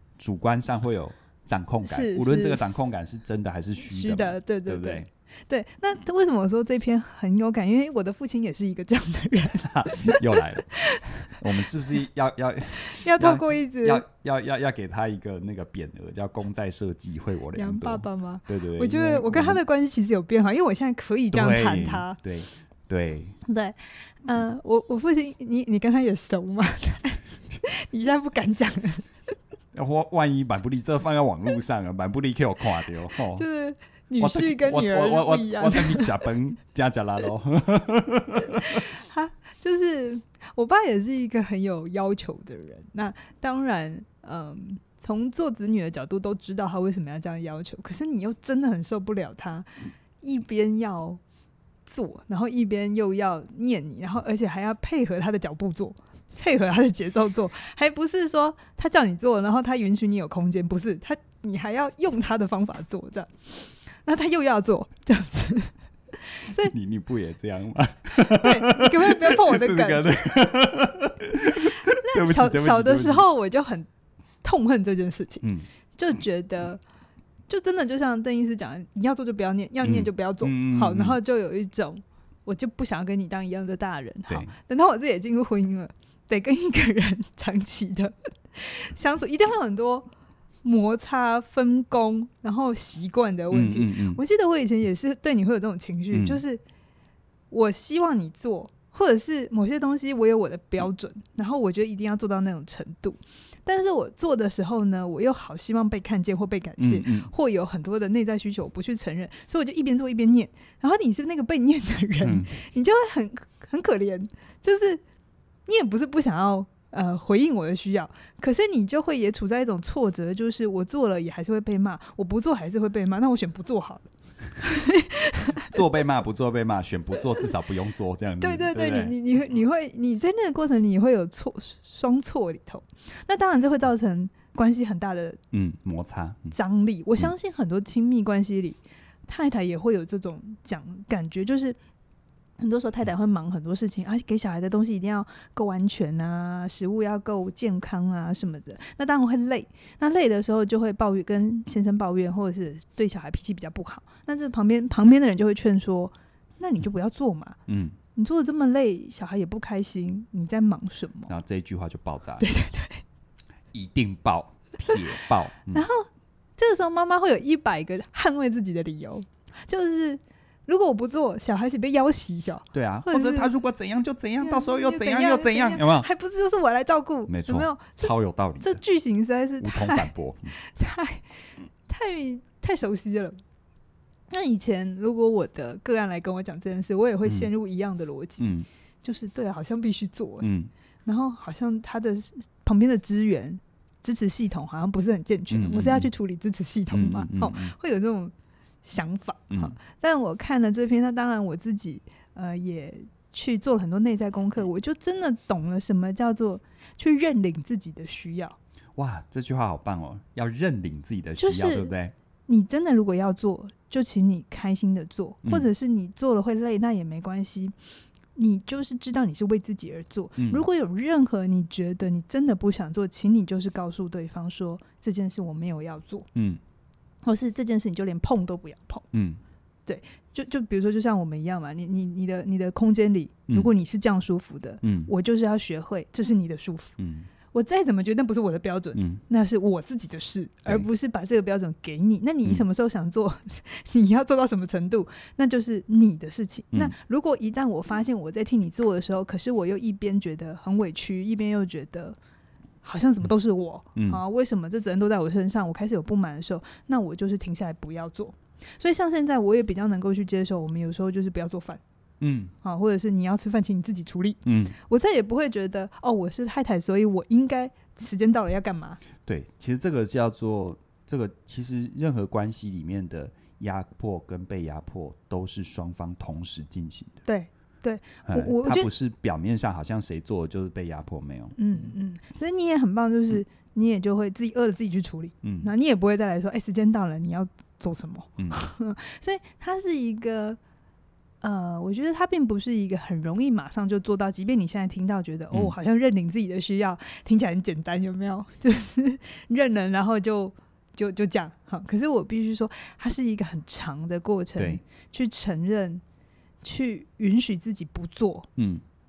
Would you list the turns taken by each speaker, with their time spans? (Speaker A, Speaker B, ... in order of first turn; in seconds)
Speaker A: 0.2-5.1, 9.6-10.8, 11.3-19.6, 21.3-23.4, 29.7-33.5, 34.2-38.9, 66.5-73.3, 79.8-81.2, 93.5-94.2, 96.1-96.4, 106.8-107.3, 112.2-112.5, 125.5-129.2, 135.5-136.6, 157.7-158.0, 161.3-162.5, 163.7-165.9, 172.7-176.1, 177.3-178.8, 179.6-180.6, 188.4-188.7, 190.4-190.7, 195.5-196.1, 196.9-197.7, 209.0-212.1, 220.4-220.7, 226.3-226.6, 229.1-229.4, 234.8-235.1, 237.0-237.3, 238.9-239.2, 254.0-254.2, 262.2-262.5, 264.4-264.8, 269.3-277.2, 278.3-281.6, 285.4-285.7, 308.6-308.8
Speaker B: 1.9-2.6, 3.8-11.3, 12.9-14.0, 17.5-22.2, 23.5-29.1, 33.2-36.2, 38.6-49.7, 50.2-51.2, 51.9-66.7, 68.1-70.2, 71.9-73.9, 74.4-75.4, 76.0-76.8, 77.5-90.1, 90.6-96.6, 97.5-115.0, 115.7-125.8, 128.4-135.4, 136.5-141.8, 142.6-157.6, 158.1-161.3, 162.4-163.0, 165.7-173.5, 174.4-183.4, 184.3-188.5, 189.0-190.5, 191.1-208.6, 211.4-211.9, 212.5-217.8, 218.3-226.3, 227.2-229.1, 229.9-236.9, 237.5-252.2, 252.8-261.8, 262.6-269.0, 277.3-278.9, 281.6-290.6, 291.4-306.0, 306.6-308.5